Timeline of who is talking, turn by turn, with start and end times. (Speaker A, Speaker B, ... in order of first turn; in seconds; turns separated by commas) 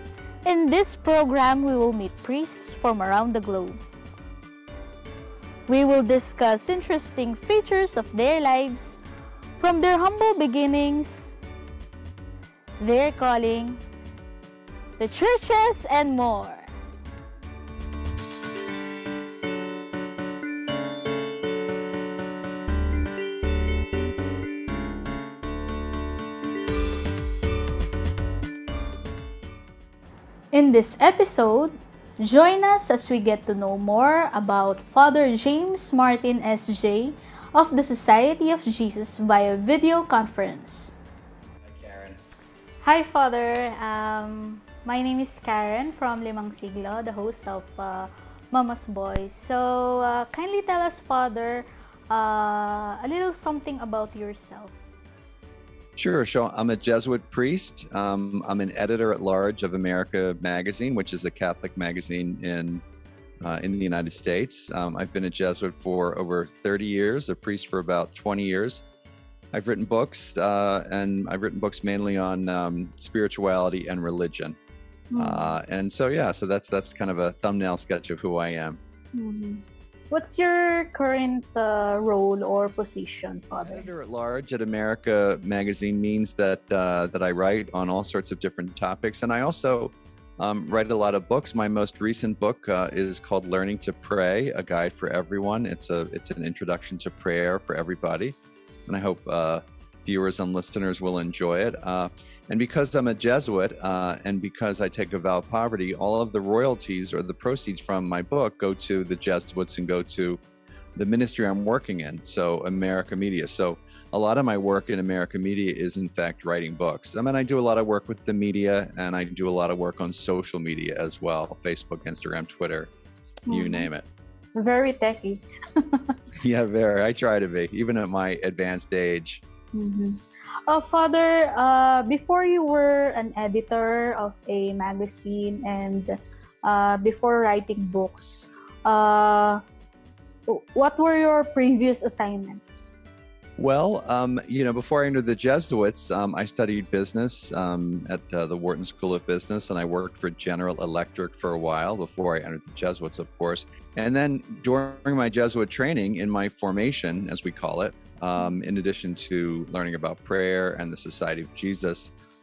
Speaker A: 0.4-3.8, Speaker A: 5.7-9.0, Speaker A: 9.6-11.3, Speaker A: 12.8-13.8, Speaker A: 15.0-16.7, Speaker A: 30.5-40.9, Speaker B: 41.6-42.2, Speaker A: 42.8-54.8, Speaker B: 56.0-62.8, Speaker B: 63.4-68.8, Speaker B: 69.5-74.6, Speaker A: 75.1-75.5, Speaker B: 75.2-78.8, Speaker A: 79.1-83.9, Speaker B: 83.6-98.3, Speaker B: 98.9-110.4, Speaker B: 111.0-122.9, Speaker A: 123.5-123.9, Speaker B: 123.5-124.1, Speaker A: 124.5-126.0, Speaker B: 126.4-129.4, Speaker A: 129.7-139.6, Speaker A: 140.5-143.0, Speaker B: 143.6-162.1